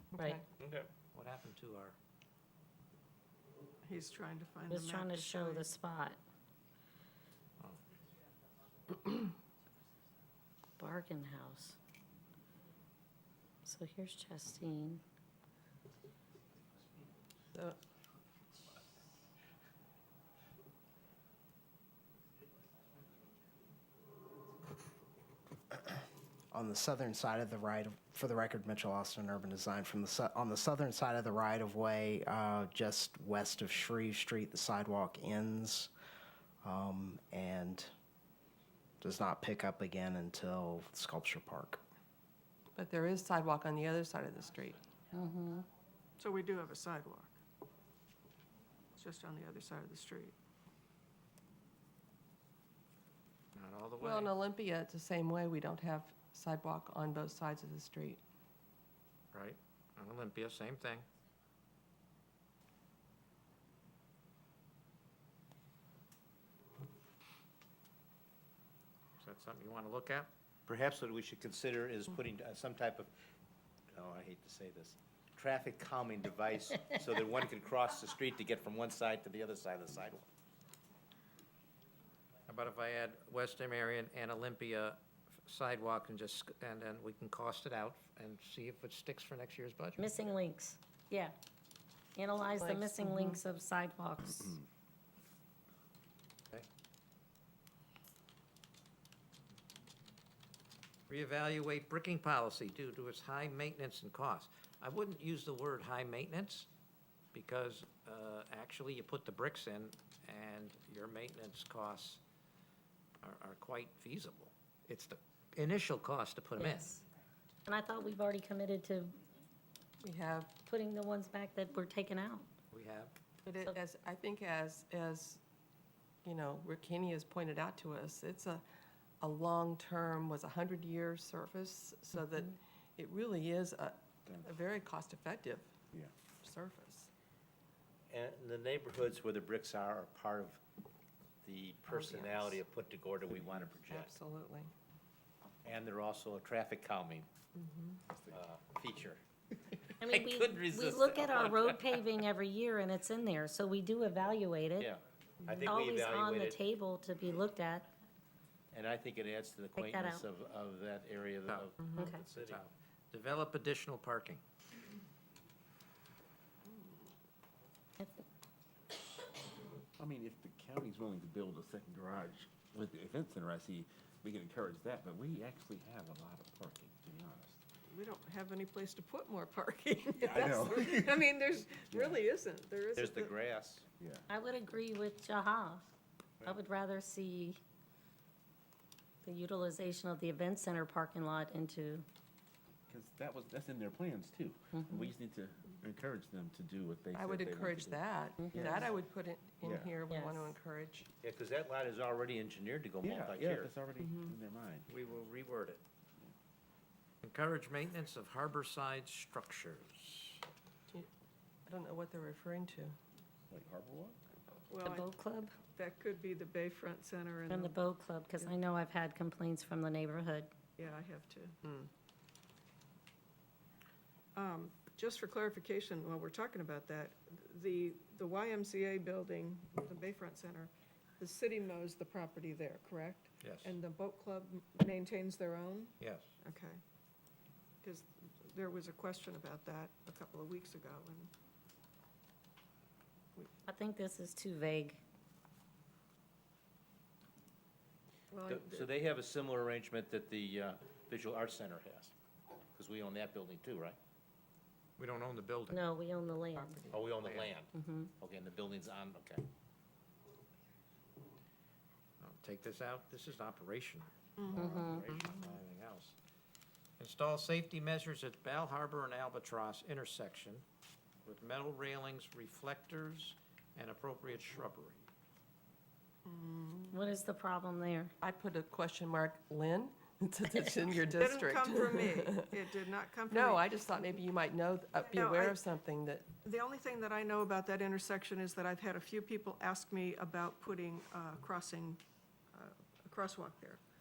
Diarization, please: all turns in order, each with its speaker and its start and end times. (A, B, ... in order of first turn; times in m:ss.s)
0:00.2-0:00.4 A
0:00.6-0:00.9 B
0:01.1-0:02.0 C
0:03.8-0:05.7 D
0:04.7-0:06.2 E
0:10.8-0:11.8 E
0:13.6-0:15.0 E
0:26.5-0:35.9 F
0:36.6-0:37.9 F
0:39.0-0:41.8 F
0:42.8-0:44.8 A
0:45.1-0:45.7 E
0:46.2-0:47.4 D
0:48.9-0:50.4 D
0:53.6-0:54.4 C
0:54.0-0:58.2 A
0:59.3-1:01.1 C
1:09.2-1:10.3 C
1:10.7-1:13.1 B
1:13.9-1:20.3 B
1:22.5-1:30.0 C
1:30.0-1:31.3 E
1:32.2-1:34.6 E
1:32.6-1:33.4 A
1:41.1-1:46.7 C
1:47.3-1:52.2 C
1:53.2-1:57.0 C
1:56.6-1:57.0 E
1:57.7-1:59.2 E
2:00.0-2:00.6 A
2:00.6-2:02.5 E
2:02.7-2:03.1 C
2:03.4-2:05.4 A
2:06.2-2:08.6 A
2:09.2-2:15.7 A
2:16.3-2:17.1 A
2:18.1-2:20.6 B
2:21.4-2:24.1 B
2:21.9-2:22.6 A
2:23.7-2:24.7 A
2:25.6-2:27.3 B
2:27.6-2:28.0 A
2:28.1-2:28.4 G
2:28.3-2:29.2 B
2:29.9-2:32.1 B
2:30.0-2:34.9 E
2:34.8-2:36.6 B
2:35.7-2:37.9 E
2:38.7-2:42.6 B
2:39.8-2:40.2 E
2:41.8-2:42.1 A
2:42.0-2:42.3 E
2:42.2-2:44.4 C
2:50.0-2:57.6 G
2:57.8-3:03.3 D
3:00.2-3:01.2 G
3:01.9-3:02.2 G
3:03.0-3:03.8 B
3:04.0-3:04.2 G
3:04.3-3:05.8 E
3:06.4-3:07.6 E
3:09.2-3:12.1 E
3:12.9-3:18.9 G
3:14.8-3:15.0 E
3:17.1-3:21.1 A
3:19.6-3:20.1 G
3:20.1-3:20.5 E
3:21.2-3:23.7 B
3:23.0-3:24.9 G
3:24.0-3:24.3 A
3:24.9-3:25.8 C
3:27.2-3:30.4 C
3:31.7-3:33.0 A
3:33.5-3:34.2 G
3:34.7-3:35.0 D
3:34.8-3:35.6 E
3:35.7-3:37.8 D
3:37.5-3:40.5 E
3:40.8-3:41.6 D
3:44.3-3:56.8 D
3:53.4-3:53.8 C
3:56.0-3:56.3 C
3:57.8-4:01.3 D
4:03.7-4:05.0 E
4:08.3-4:08.9 D
4:08.5-4:12.1 B
4:12.8-4:14.0 B
4:15.0-4:15.8 C
4:15.7-4:16.8 E
4:16.6-4:17.1 A
4:16.9-4:19.4 B
4:17.2-4:17.5 C
4:17.7-4:18.1 E
4:22.2-4:26.2 C
4:24.4-4:24.8 D
4:24.6-4:25.0 E
4:24.8-4:25.2 B
4:27.0-4:30.6 C
4:31.2-4:35.0 C
4:36.2-4:36.8 D
4:36.9-4:38.1 E
4:38.2-4:46.3 A
4:41.2-4:43.7 D
4:45.0-4:45.6 D
4:46.4-4:53.8 D